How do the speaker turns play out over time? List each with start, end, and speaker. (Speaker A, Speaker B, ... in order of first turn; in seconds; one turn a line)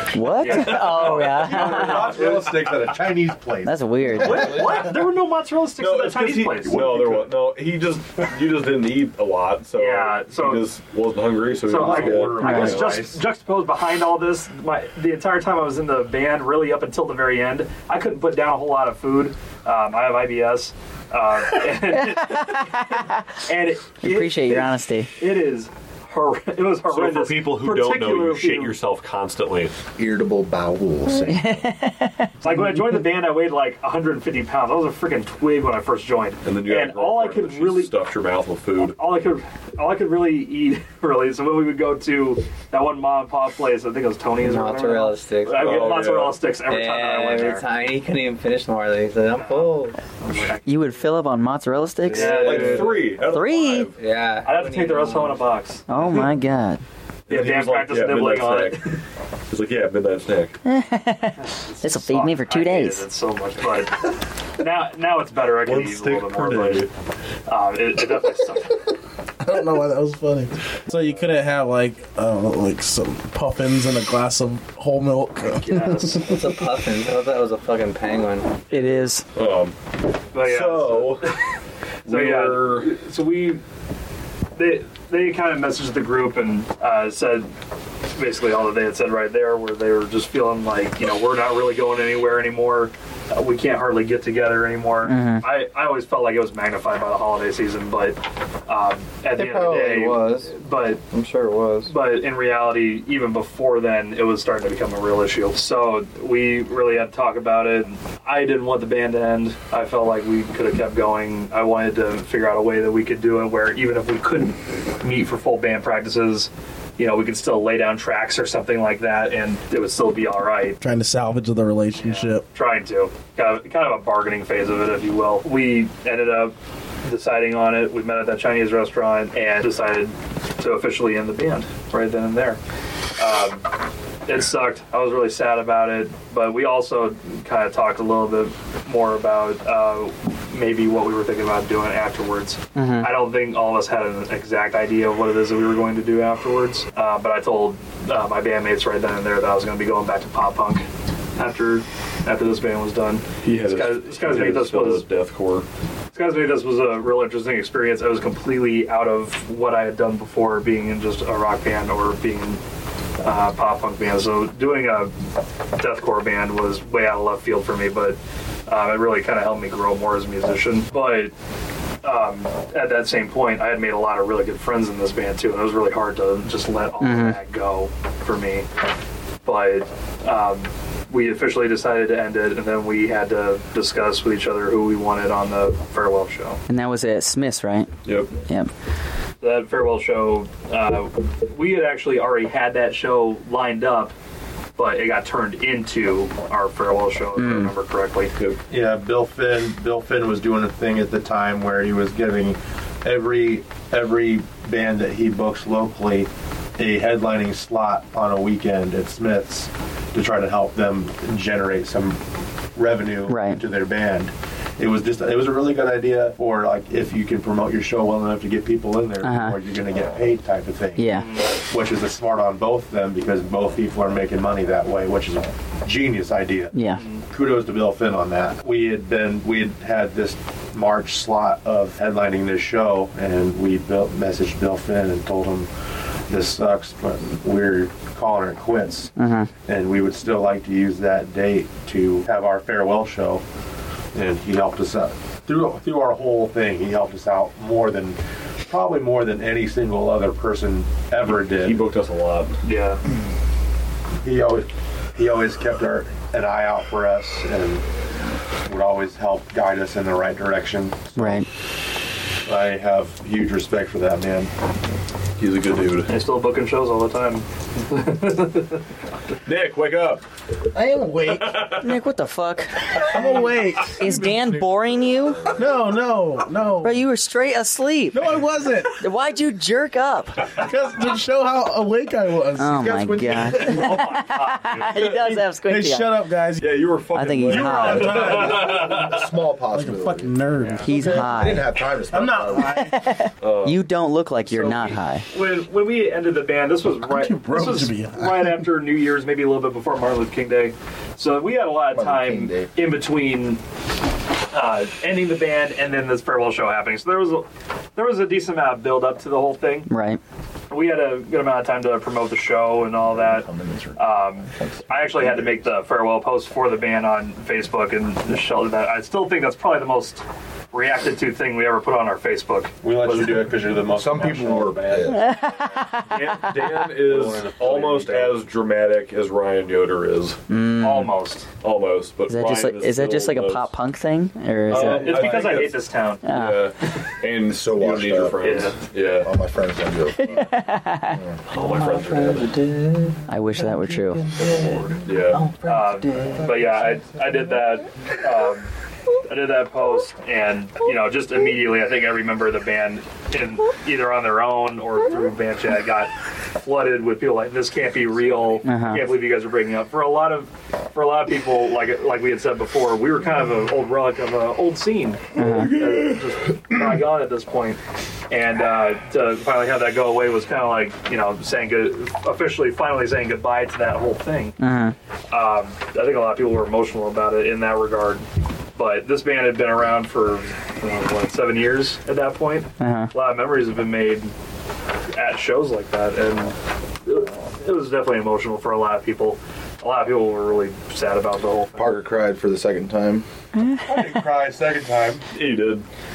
Speaker A: 0.1-2.3
Speaker B: 0.4-2.1
Speaker C: 0.5-1.5
Speaker D: 1.4-4.7
Speaker C: 2.1-2.5
Speaker A: 3.6-4.5
Speaker E: 4.2-4.5
Speaker B: 4.2-6.8
Speaker C: 4.5-4.9
Speaker C: 5.8-13.0
Speaker D: 6.7-7.3
Speaker B: 9.7-10.7
Speaker B: 11.6-28.8
Speaker D: 11.7-13.2
Speaker A: 12.4-12.8
Speaker A: 22.0-23.1
Speaker A: 24.0-25.1
Speaker C: 26.9-29.7
Speaker E: 30.0-31.6
Speaker A: 31.3-32.3
Speaker B: 32.4-37.9
Speaker C: 36.5-39.0
Speaker B: 38.8-47.6
Speaker F: 44.4-46.0
Speaker C: 45.6-46.4
Speaker F: 46.6-50.0
Speaker B: 49.3-51.1
Speaker A: 50.7-53.9
Speaker B: 52.1-53.0
Speaker F: 52.1-53.0
Speaker C: 52.1-54.0
Speaker F: 54.0-55.4
Speaker B: 54.4-56.3
Speaker A: 55.9-56.8
Speaker C: 57.3-59.0
Speaker B: 57.3-59.0
Speaker C: 59.5-60.6
Speaker A: 60.7-63.1
Speaker B: 61.4-66.9
Speaker C: 65.6-66.9
Speaker B: 67.5-68.9
Speaker G: 69.4-76.5
Speaker B: 75.5-76.3
Speaker F: 76.2-78.7
Speaker A: 78.7-79.2
Speaker C: 79.3-79.8
Speaker B: 80.3-81.4
Speaker C: 80.4-81.3
Speaker C: 82.0-83.0
Speaker B: 82.1-83.6
Speaker B: 84.6-87.5
Speaker B: 88.2-101.0
Speaker A: 95.0-95.5
Speaker F: 99.4-100.5
Speaker F: 101.1-101.9
Speaker B: 101.8-120.8
Speaker G: 120.8-122.5
Speaker B: 121.9-132.6
Speaker B: 133.2-133.7
Speaker B: 134.3-155.1
Speaker A: 142.8-143.1
Speaker C: 153.4-155.7
Speaker B: 156.1-162.6
Speaker B: 163.2-165.1
Speaker B: 165.8-171.3
Speaker B: 172.0-178.7
Speaker A: 177.0-177.4
Speaker B: 179.4-186.6
Speaker A: 186.7-187.9
Speaker C: 188.1-188.3
Speaker B: 189.4-194.1
Speaker B: 194.8-198.3
Speaker A: 197.4-197.7
Speaker D: 198.7-212.2
Speaker D: 212.8-226.8
Speaker A: 213.3-213.6
Speaker A: 219.2-219.6
Speaker A: 221.0-221.3
Speaker B: 221.2-221.5
Speaker A: 226.7-227.0
Speaker B: 227.0-227.2
Speaker D: 227.3-235.7
Speaker D: 236.3-239.1
Speaker A: 239.2-239.5
Speaker D: 239.7-243.4
Speaker D: 244.1-251.8
Speaker C: 251.2-252.6
Speaker B: 252.6-253.0
Speaker D: 254.2-257.9
Speaker D: 258.7-261.5
Speaker A: 261.2-261.5
Speaker D: 262.5-264.5
Speaker C: 265.4-266.1
Speaker B: 266.1-268.8
Speaker C: 269.4-270.2
Speaker G: 270.7-271.8
Speaker C: 271.2-271.9
Speaker A: 271.8-273.2
Speaker G: 273.1-274.5
Speaker A: 273.9-275.4
Speaker G: 275.6-277.0
Speaker A: 276.8-278.3
Speaker G: 278.1-279.1
Speaker A: 278.9-280.5
Speaker G: 280.5-282.9
Speaker A: 282.6-286.1
Speaker E: 282.7-283.6
Speaker B: 283.6-284.9
Speaker G: 285.0-286.7
Speaker C: 286.6-289.2
Speaker A: 287.1-288.4
Speaker G: 287.4-289.0
Speaker E: 288.3-290.3
Speaker G: 289.7-293.0
Speaker B: 290.6-290.9
Speaker A: 290.8-291.7
Speaker E: 290.9-292.9
Speaker A: 292.7-295.2
Speaker C: 293.4-293.8
Speaker B: 294.5-303.6
Speaker G: 297.0-298.7
Speaker E: 301.9-302.7
Speaker B: 304.5-309.9
Speaker A: 309.9-310.2
Speaker B: 310.7-323.5
Speaker E: 313.0-315.7
Speaker D: 322.8-325.2
Speaker E: 323.9-325.4
Speaker A: 325.1-326.6
Speaker C: 326.1-330.4
Speaker B: 326.1-326.5
Speaker D: 326.9-328.4
Speaker A: 330.5-331.1
Speaker B: 330.8-331.5
Speaker C: 331.6-333.7
Speaker A: 332.3-335.2
Speaker C: 334.7-339.3
Speaker B: 334.7-336.2
Speaker D: 334.8-335.7
Speaker A: 336.2-336.6
Speaker E: 337.5-338.6
Speaker B: 338.4-338.8
Speaker E: 339.2-340.5
Speaker A: 340.2-341.2
Speaker E: 341.1-341.4
Speaker F: 341.5-346.7
Speaker C: 341.5-342.5
Speaker A: 343.3-344.2
Speaker C: 345.0-345.5
Speaker B: 345.6-348.7
Speaker B: 349.3-367.8
Speaker A: 358.6-359.0
Speaker A: 365.4-365.7
Speaker C: 365.4-366.6
Speaker B: 368.3-374.6
Speaker A: 374.6-374.9
Speaker B: 375.3-384.3
Speaker A: 382.8-383.1
Speaker B: 385.1-392.0
Speaker E: 391.8-393.3
Speaker D: 393.8-395.2
Speaker C: 395.3-395.9